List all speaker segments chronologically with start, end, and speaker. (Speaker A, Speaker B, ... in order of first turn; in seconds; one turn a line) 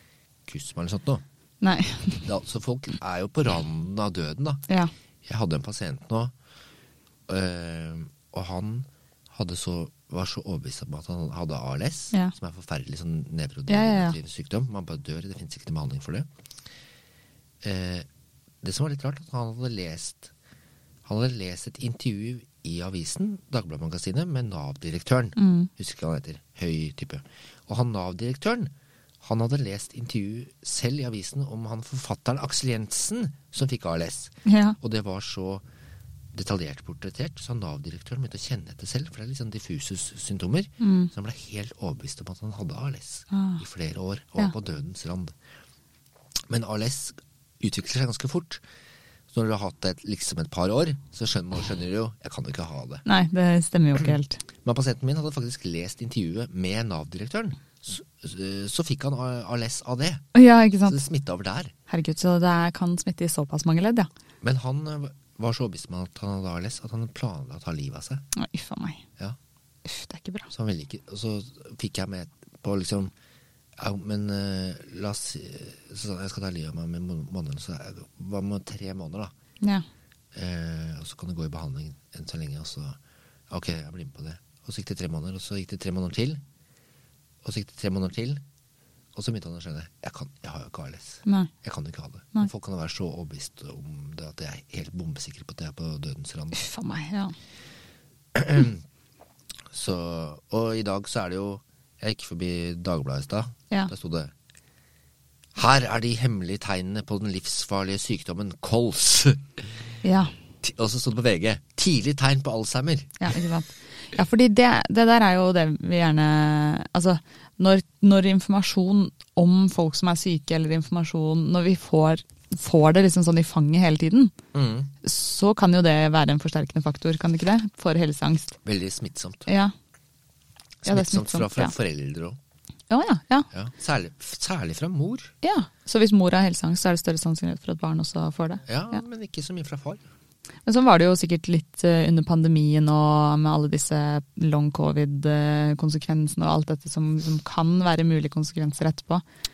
Speaker A: 0.5-1.2
Speaker B: 1.6-2.2
Speaker A: 2.2-4.7
Speaker A: 5.3-6.3
Speaker A: 7.3-16.3
Speaker B: 13.7-14.2
Speaker A: 17.6-18.1
Speaker A: 18.6-20.3
Speaker A: 21.1-35.6
Speaker B: 25.4-25.7
Speaker B: 34.5-34.8
Speaker A: 36.3-45.3
Speaker B: 40.8-41.1
Speaker B: 43.3-43.6
Speaker A: 46.5-48.6
Speaker A: 49.3-53.0
Speaker B: 53.1-54.4
Speaker A: 54.6-60.2
Speaker B: 60.3-61.0
Speaker A: 60.8-61.7
Speaker B: 61.9-64.1
Speaker A: 64.4-68.2
Speaker B: 68.3-69.0
Speaker B: 69.8-70.5
Speaker A: 70.5-73.1
Speaker A: 73.8-79.3
Speaker A: 80.3-83.0
Speaker A: 83.5-86.4
Speaker A: 87.4-88.4
Speaker A: 89.2-96.6
Speaker B: 91.3-91.5
Speaker B: 96.5-97.3
Speaker A: 98.3-98.8
Speaker A: 99.7-104.3
Speaker A: 105.5-109.7
Speaker B: 110.0-110.3
Speaker A: 110.6-113.3
Speaker B: 113.2-124.3
Speaker A: 124.5-124.9
Speaker B: 125.0-128.6
Speaker A: 128.6-129.5
Speaker B: 129.5-129.7
Speaker A: 130.8-132.4
Speaker B: 130.9-131.7
Speaker B: 132.9-133.5
Speaker A: 133.5-135.3
Speaker B: 135.4-139.0
Speaker A: 138.7-140.1
Speaker B: 140.7-149.2